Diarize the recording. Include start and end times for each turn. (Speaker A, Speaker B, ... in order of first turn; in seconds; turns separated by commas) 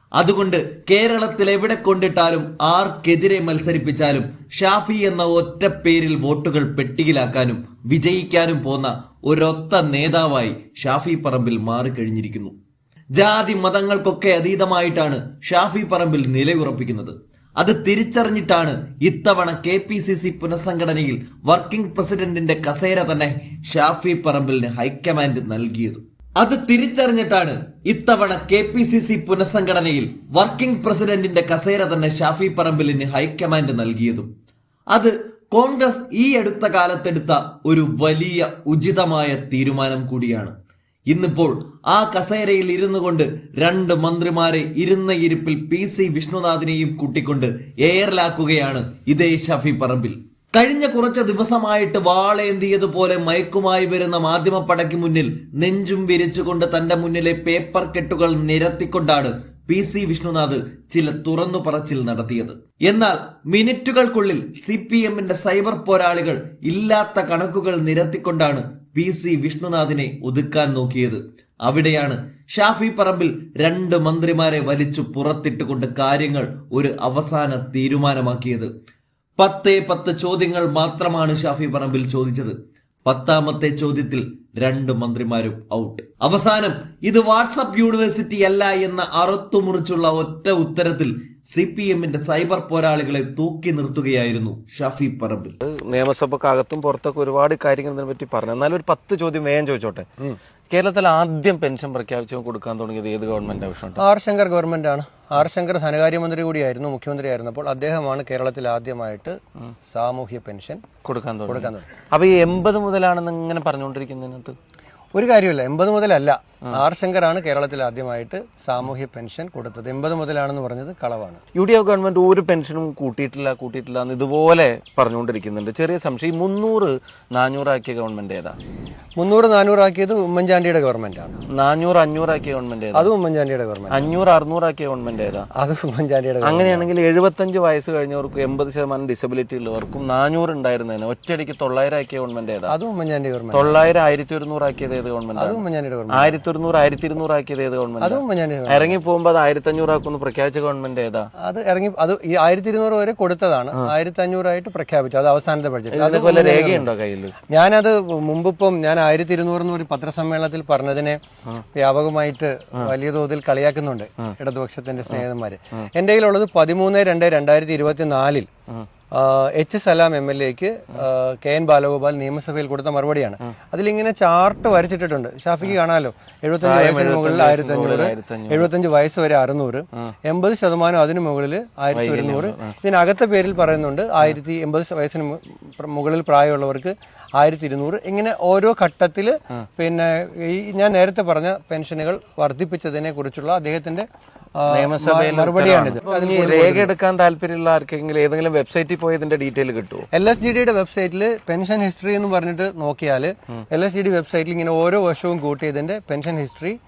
Speaker A: 0.2-12.5, Speaker A: 13.1-34.3, Speaker A: 34.9-40.5, Speaker A: 41.1-78.7, Speaker A: 79.4-82.5, Speaker A: 83.0-95.5, Speaker B: 95.6-100.0, Speaker B: 100.7-104.0, Speaker C: 104.0-109.3, Speaker C: 109.9-110.8, Speaker B: 111.0-114.5, Speaker C: 111.5-111.9, Speaker C: 115.1-121.4, Speaker B: 121.5-128.6, Speaker C: 129.2-131.4, Speaker B: 131.5-133.1, Speaker C: 132.9-134.1, Speaker B: 133.9-135.5, Speaker C: 135.5-136.8, Speaker B: 136.4-142.7, Speaker C: 142.7-143.8, Speaker B: 143.5-151.3, Speaker C: 145.3-146.4, Speaker C: 148.0-149.0, Speaker C: 151.4-156.9, Speaker B: 155.9-157.3, Speaker C: 157.5-161.2, Speaker C: 161.7-168.5, Speaker C: 169.1-194.1, Speaker B: 176.6-178.7, Speaker B: 181.9-182.7, Speaker C: 194.6-196.9, Speaker B: 194.7-200.1, Speaker C: 200.1-206.8